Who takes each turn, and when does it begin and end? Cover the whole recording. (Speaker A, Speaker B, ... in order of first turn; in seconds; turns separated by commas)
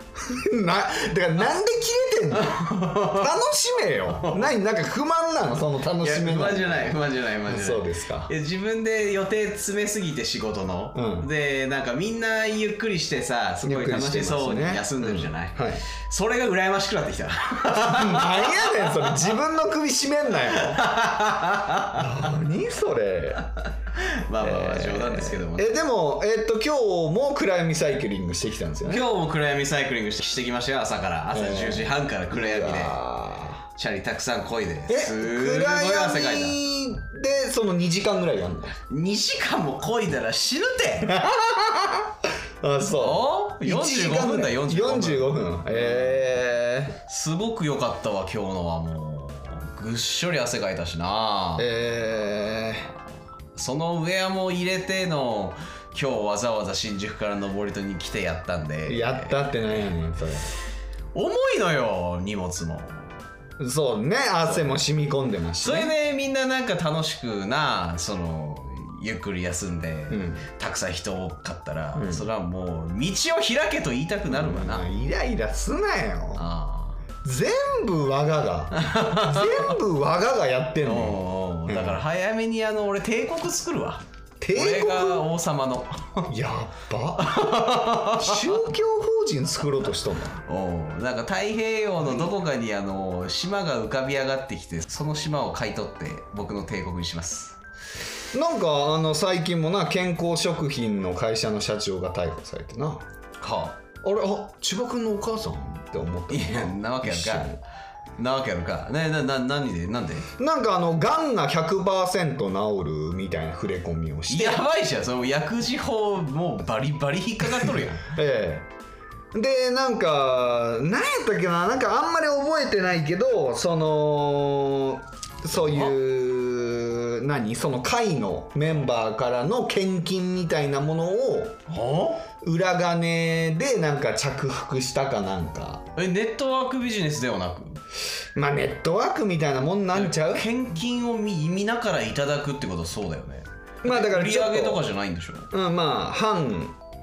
Speaker A: 0.2-8.3, Speaker B: 2.3-3.3, Speaker B: 4.2-4.5, Speaker B: 6.0-19.2, Speaker A: 10.9-11.3, Speaker A: 13.6-15.8, Speaker A: 17.6-20.8, Speaker B: 20.5-22.2, Speaker A: 21.9-23.5, Speaker B: 23.9-25.7, Speaker A: 24.4-29.1, Speaker B: 28.9-33.0, Speaker A: 31.3-33.6, Speaker B: 33.8-36.6, Speaker A: 34.9-38.8, Speaker B: 38.9-41.2, Speaker A: 41.0-47.0, Speaker B: 43.0-46.2, Speaker B: 47.1-51.7, Speaker A: 51.6-52.9, Speaker B: 53.5-59.9, Speaker A: 58.9-60.5, Speaker B: 61.1-63.1, Speaker A: 63.6-65.9, Speaker B: 65.6-74.9, Speaker A: 70.1-70.4, Speaker A: 72.0-72.3, Speaker A: 74.3-76.5, Speaker B: 76.3-77.0, Speaker A: 77.2-82.0, Speaker B: 78.7-79.7, Speaker B: 80.8-86.3, Speaker A: 84.4-85.3, Speaker A: 86.3-90.4, Speaker B: 87.2-88.6, Speaker B: 90.4-97.5, Speaker A: 98.3-103.0, Speaker B: 103.4-103.8, Speaker A: 104.0-107.6, Speaker B: 106.3-107.5, Speaker B: 108.2-110.3, Speaker A: 110.4-114.6, Speaker B: 114.3-118.1, Speaker A: 118.0-118.7, Speaker A: 119.3-131.6, Speaker B: 125.5-125.9, Speaker B: 131.7-132.3, Speaker A: 132.4-135.8, Speaker B: 135.9-137.8, Speaker A: 138.3-140.5, Speaker B: 139.9-145.5, Speaker A: 143.8-144.8, Speaker A: 145.5-146.8